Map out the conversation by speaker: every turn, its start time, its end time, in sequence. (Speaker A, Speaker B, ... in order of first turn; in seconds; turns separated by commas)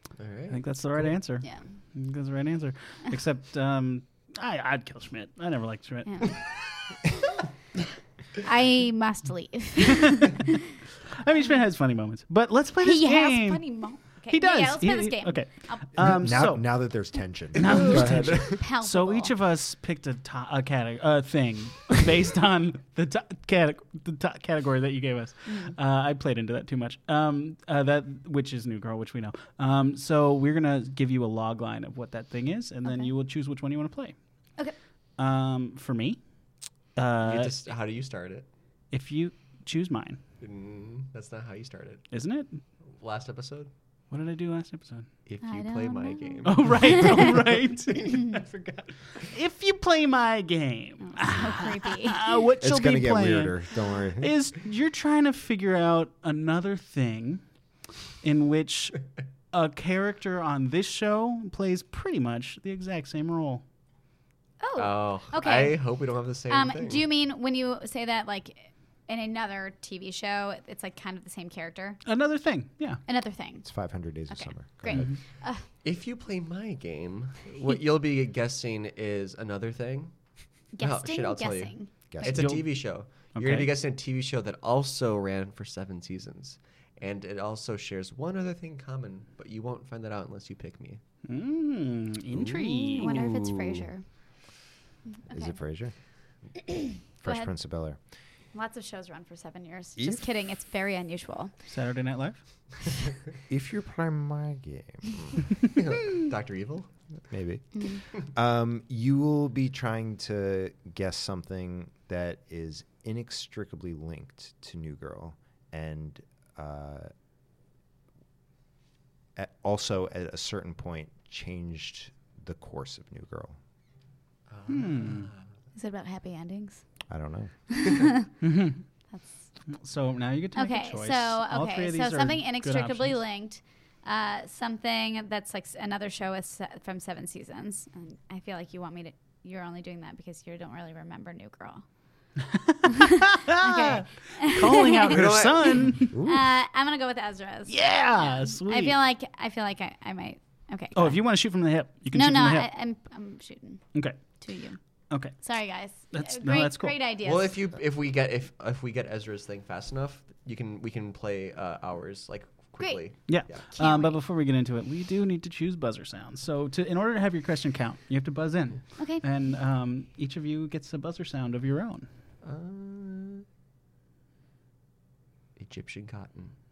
Speaker A: 0.2-1.2, Speaker B: 0.5-6.3, Speaker C: 6.1-6.4, Speaker C: 8.4-10.5, Speaker B: 11.1-34.2, Speaker C: 12.8-16.2, Speaker D: 16.0-18.6, Speaker C: 17.6-19.3, Speaker C: 25.5-25.8, Speaker C: 32.9-33.1, Speaker B: 35.2-36.2, Speaker B: 37.0-37.6, Speaker A: 37.2-38.5, Speaker B: 38.9-40.2, Speaker A: 40.4-42.0, Speaker B: 42.1-42.6, Speaker A: 42.9-43.7, Speaker B: 44.1-45.1, Speaker A: 45.3-47.3, Speaker C: 45.4-47.4, Speaker B: 46.5-53.6, Speaker C: 51.0-52.4, Speaker D: 52.6-54.4, Speaker B: 54.2-57.4, Speaker B: 58.2-63.6, Speaker C: 64.6-65.8, Speaker A: 64.8-67.0, Speaker C: 66.5-72.0, Speaker B: 72.0-73.0, Speaker C: 73.1-73.7, Speaker D: 73.7-75.1, Speaker C: 74.3-75.6, Speaker A: 75.8-80.2, Speaker C: 80.8-82.4, Speaker A: 80.8-91.0, Speaker D: 82.1-82.5, Speaker B: 82.2-83.7, Speaker B: 91.2-93.2, Speaker D: 92.3-93.9, Speaker C: 92.9-94.0, Speaker C: 95.2-95.6, Speaker D: 95.3-95.9, Speaker D: 97.2-98.0, Speaker C: 97.2-97.5, Speaker C: 98.5-101.5, Speaker D: 100.0-100.2, Speaker B: 101.7-102.4, Speaker D: 103.5-105.4, Speaker A: 105.7-106.9, Speaker D: 107.3-117.1, Speaker C: 107.8-108.0, Speaker D: 119.3-123.6, Speaker A: 124.5-125.4, Speaker B: 124.7-125.3, Speaker C: 125.8-126.8, Speaker D: 127.1-127.9, Speaker C: 127.7-128.2, Speaker B: 128.4-128.8, Speaker C: 129.1-129.5, Speaker B: 129.7-133.2, Speaker C: 130.5-141.8, Speaker B: 142.5-146.2, Speaker C: 143.2-145.3, Speaker A: 145.1-146.0, Speaker D: 146.1-146.5, Speaker C: 146.2-151.2, Speaker B: 147.7-149.0, Speaker B: 150.9-152.7, Speaker C: 152.1-153.9, Speaker B: 153.9-154.2, Speaker C: 154.4-154.8, Speaker B: 155.1-155.4, Speaker C: 155.4-157.6, Speaker B: 156.1-156.9, Speaker A: 157.2-163.7, Speaker B: 163.3-172.1, Speaker C: 163.6-164.2, Speaker C: 169.0-169.2, Speaker A: 172.4-173.4, Speaker A: 175.6-176.5